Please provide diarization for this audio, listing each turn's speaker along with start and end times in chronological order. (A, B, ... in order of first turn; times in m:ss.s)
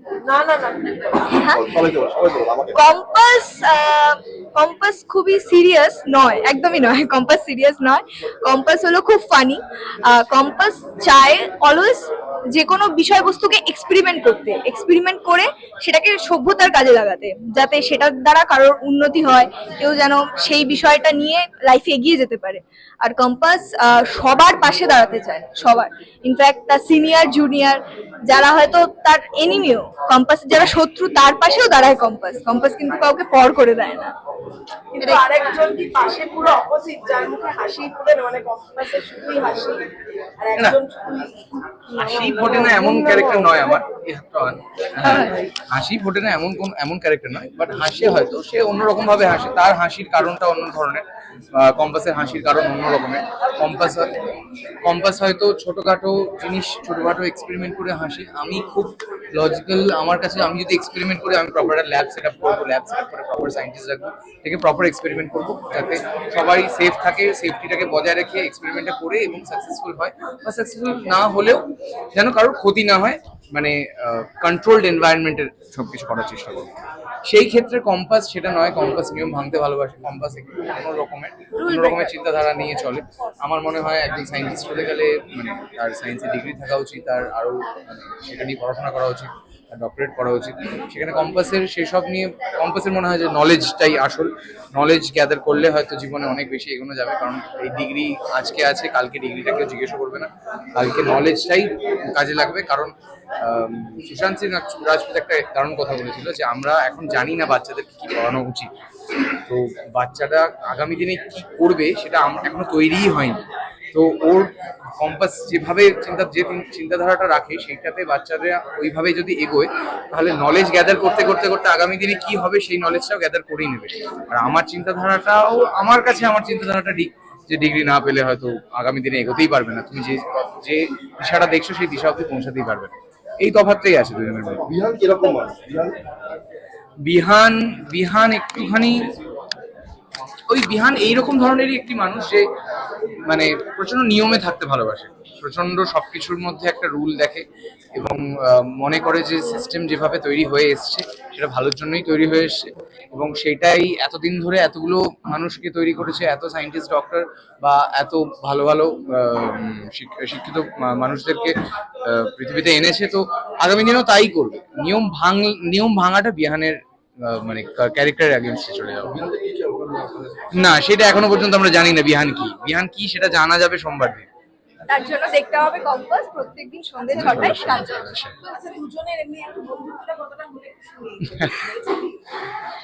0:00.2-0:01.2 A
0:01.3-0:01.8 B
0:01.4-0:02.8 C
0:02.7-0:34.1 B
0:34.9-0:43.7 A
0:35.0-0:35.2 B
0:41.9-0:54.2 D
0:45.0-0:45.5 B
0:54.8-1:16.7 D
1:17.2-1:48.7 D
1:21.7-1:21.9 B
1:49.5-1:53.4 D
1:53.9-2:14.6 D
2:14.6-2:16.0 C
2:17.0-2:19.1 D
2:20.5-2:22.4 D
2:23.2-2:49.2 D
2:49.0-2:50.6 C
2:50.5-2:54.3 D
2:54.9-2:58.2 B
2:57.1-2:58.4 D
2:58.4-3:02.3 A